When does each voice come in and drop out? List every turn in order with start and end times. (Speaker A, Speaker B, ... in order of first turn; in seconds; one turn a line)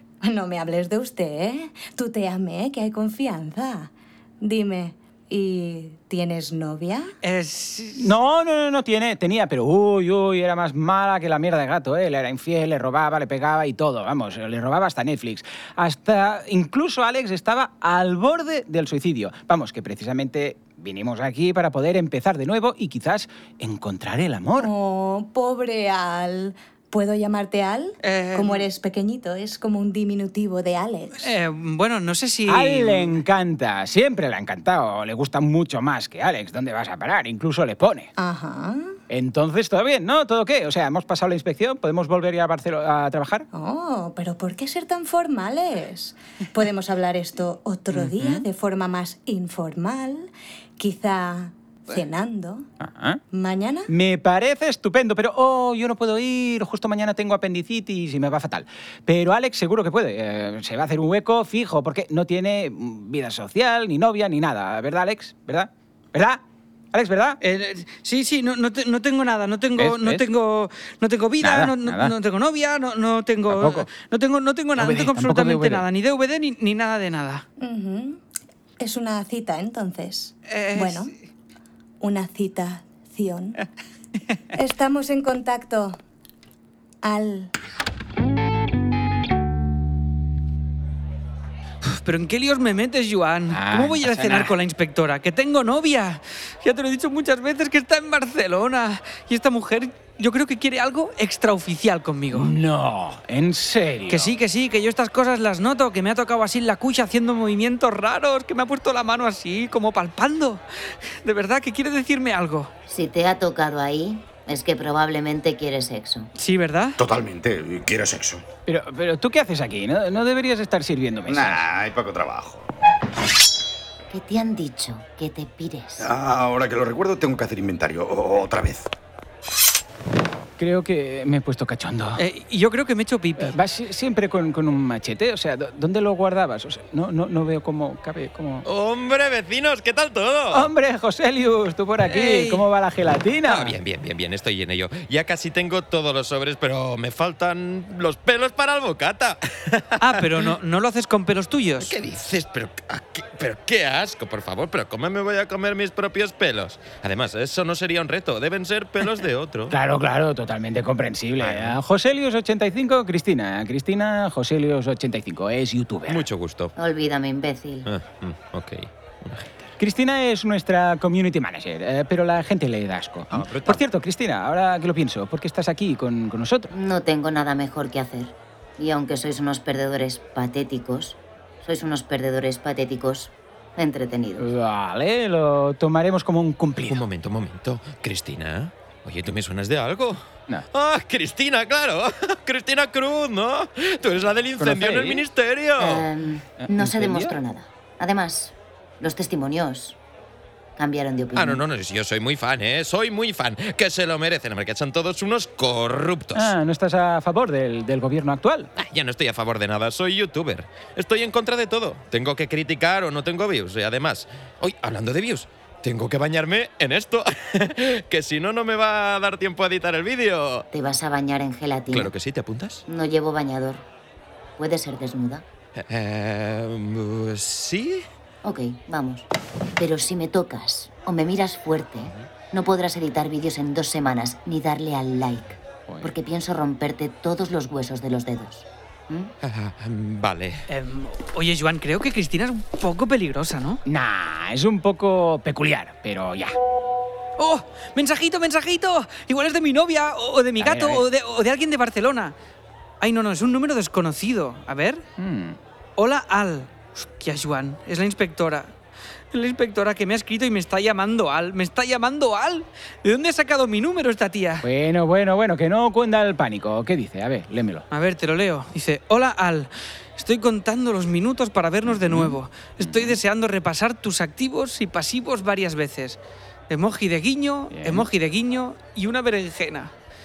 Speaker A: 0.2-7.1
Speaker B: 7.2-8.1
Speaker C: 8.0-24.7
Speaker A: 24.6-31.3
Speaker B: 28.0-28.7
Speaker B: 31.2-33.2
Speaker C: 32.5-38.1
Speaker A: 38.2-38.9
Speaker C: 39.1-43.5
Speaker A: 43.5-50.3
Speaker C: 47.9-48.5
Speaker A: 50.8-52.7
Speaker C: 52.8-53.2
Speaker A: 53.3-53.9
Speaker C: 53.9-66.4
Speaker C: 66.9-67.4
Speaker B: 67.4-77.4
Speaker C: 69.8-70.3
Speaker C: 71.4-72.2
Speaker C: 73.5-73.9
Speaker C: 74.8-75.8
Speaker A: 77.6-78.2
Speaker A: 78.8-81.1
Speaker B: 80.5-81.1
Speaker A: 82.0-83.6
Speaker A: 84.5-86.0
Speaker A: 87.0-87.5
Speaker B: 91.8-102.5
Speaker C: 93.5-94.5
Speaker C: 102.3-104.3
Speaker B: 104.1-110.6
Speaker B: 111.2-112.7
Speaker D: 112.9-116.3
Speaker B: 116.4-117.0
Speaker E: 117.0-118.4
Speaker C: 118.7-121.7
Speaker E: 121.3-122.7
Speaker D: 124.1-126.1
Speaker E: 126.0-128.9
Speaker C: 130.6-132.2
Speaker B: 132.2-133.6
Speaker C: 133.4-138.7
Speaker F: 138.7-140.7
Speaker C: 140.5-143.8
Speaker B: 142.1-142.7
Speaker F: 143.5-150.5
Speaker B: 150.0-152.0
Speaker F: 151.8-159.8
Speaker C: 159.7-166.3
Speaker F: 161.4-161.8
Speaker F: 166.1-166.7
Speaker D: 166.8-167.9
Speaker F: 167.9-169.7
Speaker C: 169.8-176.7
Speaker F: 173.3-173.8
Speaker D: 176.7-184.5
Speaker C: 184.4-187.1
Speaker F: 186.9-190.2
Speaker F: 190.7-196.1
Speaker C: 194.6-195.3
Speaker D: 195.8-200.0
Speaker C: 196.6-197.4
Speaker D: 200.8-201.6
Speaker F: 201.3-206.5
Speaker C: 206.3-208.7
Speaker F: 208.8-220.7
Speaker D: 220.7-222.1
Speaker F: 221.9-222.8
Speaker D: 222.9-223.8
Speaker D: 224.6-225.5
Speaker F: 225.8-228.1
Speaker D: 228.4-239.3
Speaker C: 235.9-236.1
Speaker F: 239.4-240.7
Speaker B: 240.7-243.8
Speaker C: 243.9-246.6
Speaker B: 247.4-252.3
Speaker C: 250.6-251.1
Speaker B: 253.0-255.0
Speaker C: 255.2-255.6
Speaker B: 256.0-258.7
Speaker B: 259.3-264.7
Speaker C: 264.6-267.9
Speaker B: 267.9-276.2
Speaker C: 271.9-273.2
Speaker B: 276.7-279.9
Speaker C: 277.7-278.1